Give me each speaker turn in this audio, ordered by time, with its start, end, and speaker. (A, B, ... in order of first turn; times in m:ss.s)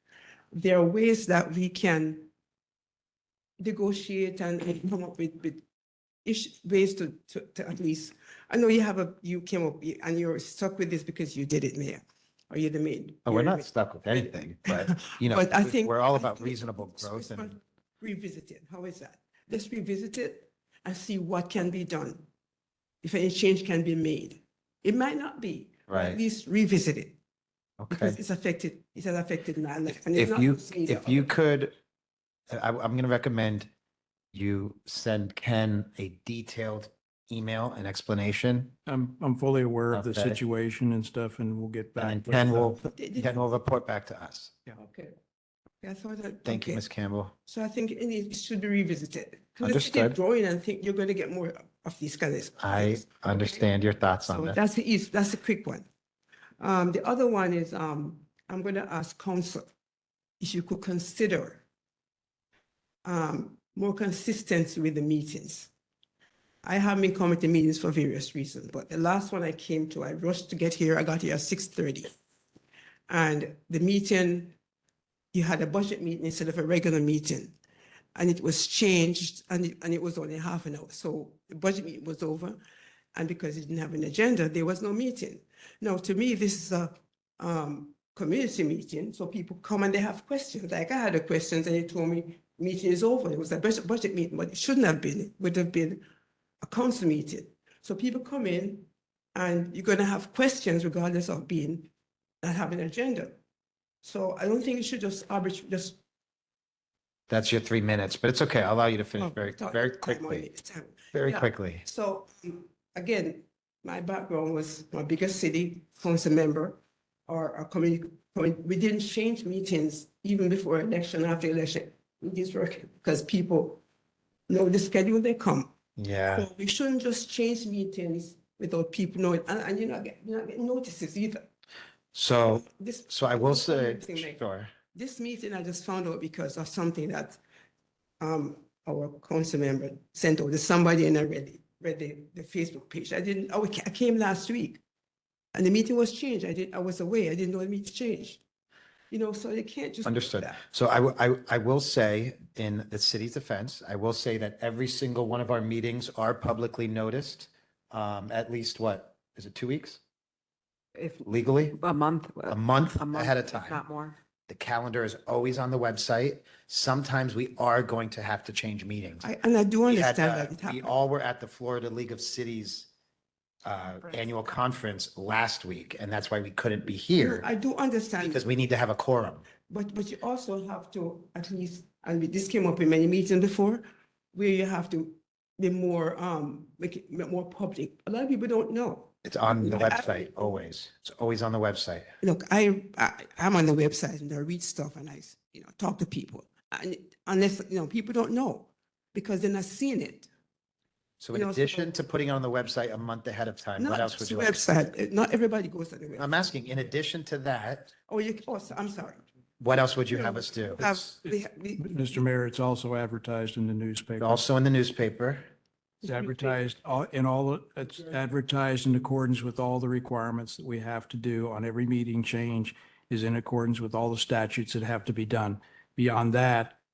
0:00.5-0:02.3 A
0:03.6-0:05.6 A
0:06.2-0:22.3 A
0:13.2-0:17.6 B
0:23.0-0:27.2 A
0:25.9-0:26.2 B
0:27.8-0:28.2 B
0:27.9-0:31.3 A
0:30.1-0:31.7 B
0:32.5-0:33.7 B
0:34.3-0:38.7 B
0:38.8-0:42.8 C
0:39.9-0:40.4 B
0:42.0-0:44.5 B
0:42.8-0:43.3 A
0:44.7-0:45.2 A
0:45.8-0:46.8 A
0:46.4-0:47.3 B
0:47.5-0:53.7 A
0:49.6-0:50.2 B
0:52.6-0:54.6 B
0:54.2-0:55.9 A
0:56.6-0:59.7 A
1:00.4-1:01.6 A
1:03.0-1:05.7 A
1:06.6-1:12.1 A
1:13.1-1:14.5 A
1:15.3-1:17.5 A
1:18.1-1:22.6 A
1:23.1-1:36.0 A
1:36.6-1:41.9 A
1:42.4-1:43.4 A
1:44.0-1:46.0 A
1:47.3-1:50.5 B
1:49.2-2:03.8 A
1:51.1-1:51.8 B
2:04.5-2:05.7 A
2:06.0-2:06.5 B
2:06.3-2:11.5 A
2:12.1-2:14.7 B
2:12.5-2:14.4 A
2:14.9-2:17.4 A
2:18.2-2:24.8 A
2:25.5-2:28.4 A
2:29.1-2:30.6 A
2:30.0-2:40.0 B
2:41.2-2:41.8 B
2:41.7-2:44.1 D
2:42.5-2:43.8 B
2:44.5-2:49.2 B
2:49.2-2:50.9 A
2:49.9-2:52.9 B
2:53.6-2:57.5 B
2:57.2-2:58.4 A
2:58.2-2:59.4 B
2:59.7-3:10.3 A
3:09.2-3:12.1 B
3:12.2-3:20.3 A
3:21.2-3:24.6 B
3:21.3-3:22.0 A
3:23.8-3:26.3 A
3:26.2-3:27.9 B
3:28.1-3:29.2 A
3:29.6-3:30.9 B
3:30.1-3:31.8 A
3:30.8-3:34.4 C
3:34.2-3:35.4 B
3:36.0-3:46.8 C
3:36.2-3:36.5 A